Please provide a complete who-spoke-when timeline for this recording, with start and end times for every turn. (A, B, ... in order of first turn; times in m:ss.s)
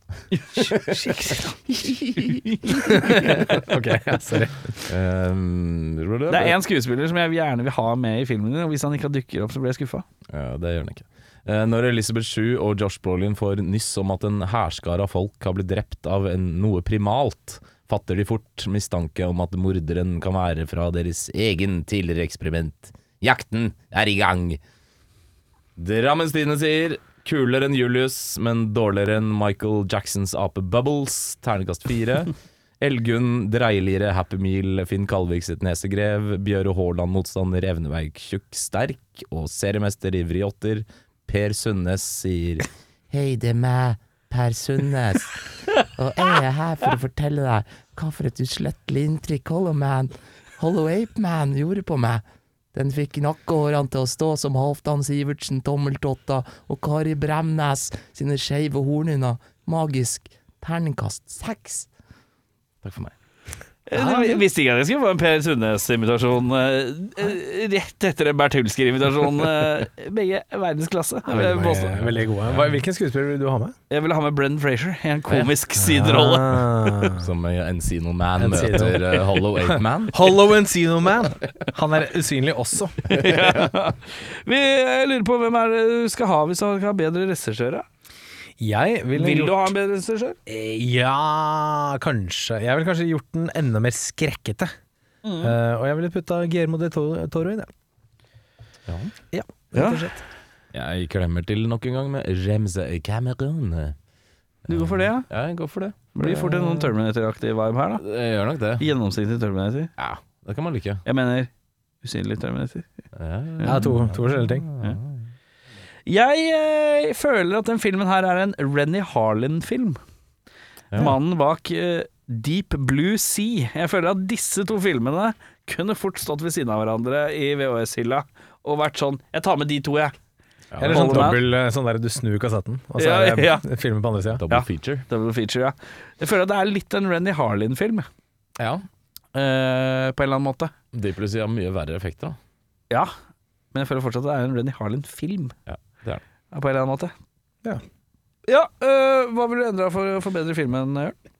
0:00.5-0:03.7 A
0:02.7-0:04.9 B
0:04.8-0:06.5 C
0:06.3-0:10.0 A
0:10.3-0:24.6 C
0:25.8-0:42.7 C
0:43.1-0:52.2 D
0:52.7-1:01.9 D
1:02.8-1:03.1 C
1:03.9-1:11.9 A
1:03.9-1:04.4 B
1:11.2-1:13.8 B
1:11.3-1:12.7 C
1:13.9-1:16.8 A
1:15.3-1:15.5 C
1:15.8-1:17.3 B
1:17.1-1:20.4 C
1:18.4-1:23.0 B
1:23.0-1:27.8 A
1:23.2-1:23.7 C
1:28.6-1:29.7 B
1:29.1-1:30.4 A
1:30.5-1:34.7 B
1:35.2-1:35.6 A
1:35.4-1:37.7 B
1:38.9-1:39.1 C
1:39.3-1:40.2 B
1:39.7-1:40.1 A
1:40.7-1:44.0 C
1:44.7-1:46.9 C
1:44.7-1:45.3 A
1:46.1-1:48.0 A
1:48.0-1:48.9 C
1:48.8-1:49.9 A
1:50.0-1:51.0 C
1:51.0-1:51.5 A
1:52.0-1:52.9 A
1:53.1-1:55.3 C
1:53.6-1:54.7 B
1:56.1-2:00.0 A
2:00.9-2:10.1 A
2:10.7-2:11.4 C
2:10.8-2:14.4 B
2:10.9-2:11.4 A
2:13.0-2:13.7 A
2:14.4-2:15.1 C
2:14.5-2:18.1 A
2:18.6-2:18.8 C
2:19.3-2:20.7 A
2:20.9-2:22.4 C
2:23.7-2:25.5 A
2:25.7-2:26.2 C
2:26.5-2:27.1 A
2:28.5-2:31.2 A